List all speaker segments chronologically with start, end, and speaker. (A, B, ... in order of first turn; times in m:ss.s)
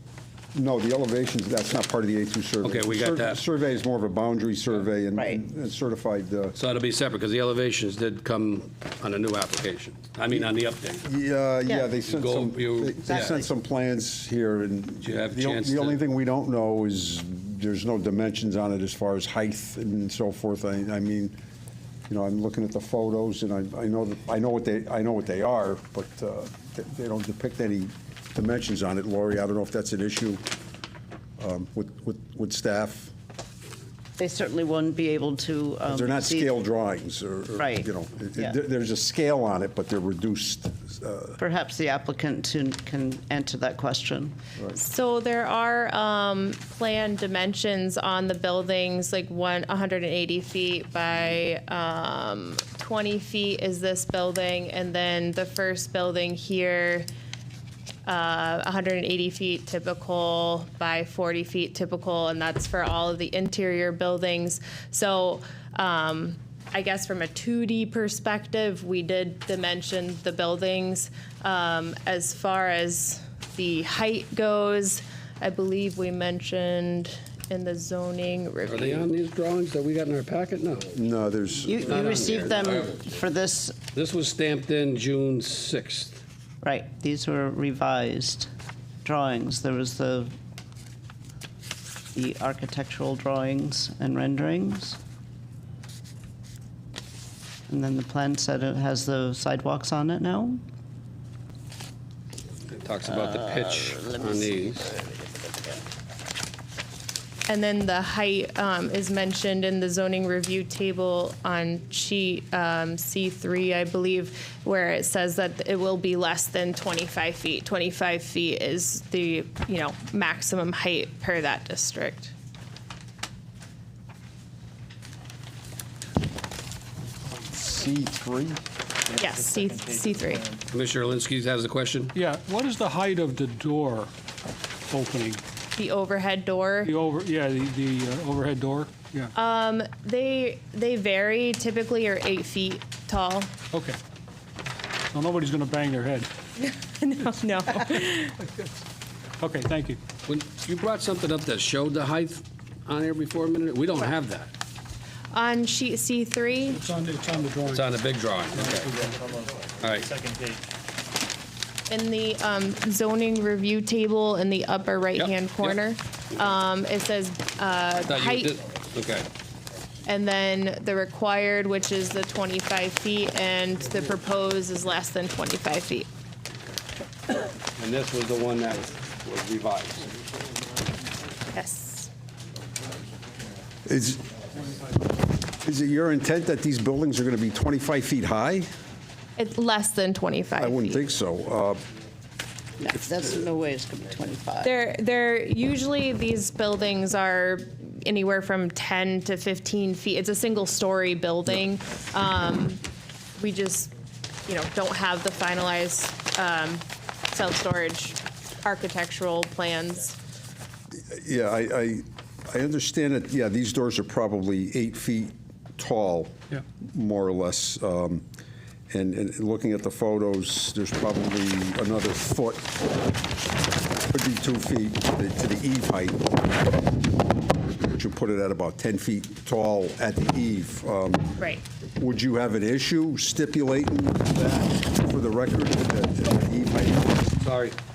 0:00.5-0:06.6 A
0:02.6-0:03.4 B
0:05.2-0:05.4 C
0:06.5-0:11.1 B
0:11.0-0:21.4 A
0:12.0-0:13.4 B
0:13.1-0:13.4 C
0:15.0-0:16.0 B
0:22.1-0:30.4 A
0:31.4-0:33.1 A
0:34.2-0:36.5 C
0:35.9-0:41.4 A
0:37.6-0:38.5 C
0:41.4-0:44.4 C
0:44.8-0:57.1 D
0:58.0-1:19.1 D
1:18.6-1:21.0 B
1:20.9-1:22.5 A
1:21.6-1:23.8 C
1:21.8-1:23.1 B
1:23.9-1:26.2 B
1:26.6-1:28.5 C
1:29.0-1:30.3 C
1:32.1-1:35.0 C
1:37.7-1:40.6 C
1:42.7-1:44.9 B
1:43.2-1:45.5 C
1:47.5-2:02.3 D
2:07.5-2:08.6 A
2:09.1-2:10.6 E
2:09.2-2:10.4 D
2:10.7-2:12.1 B
2:12.1-2:14.1 F
2:14.9-2:15.4 F
2:15.7-2:16.9 D
2:16.8-2:19.3 F
2:19.3-2:23.5 D
2:23.7-2:24.0 F
2:25.1-2:26.3 F
2:26.6-2:28.4 D
2:29.4-2:30.0 F
2:30.2-2:34.5 B
2:35.3-2:36.9 D
2:36.7-2:37.9 F
2:37.7-2:38.9 B
2:38.5-2:39.2 F
2:38.9-2:40.6 E
2:39.8-2:40.1 B
2:41.9-2:48.5 D
2:45.2-2:45.8 B
2:48.1-2:49.3 B
2:50.0-2:56.1 D
2:57.8-3:00.1 B
3:01.5-3:02.1 D
3:03.8-3:04.2 A
3:05.6-3:08.7 A
3:09.4-3:11.0 D
3:10.6-3:11.8 A
3:12.8-3:14.7 C
3:14.6-3:22.8 D
3:23.4-3:23.9 D
3:24.5-3:30.2 D
3:31.1-3:38.2 A
3:38.9-3:42.9 A
3:44.1-3:46.5 A
3:47.8-3:51.4 A
3:52.0-3:57.3 A
3:57.4-3:57.8 B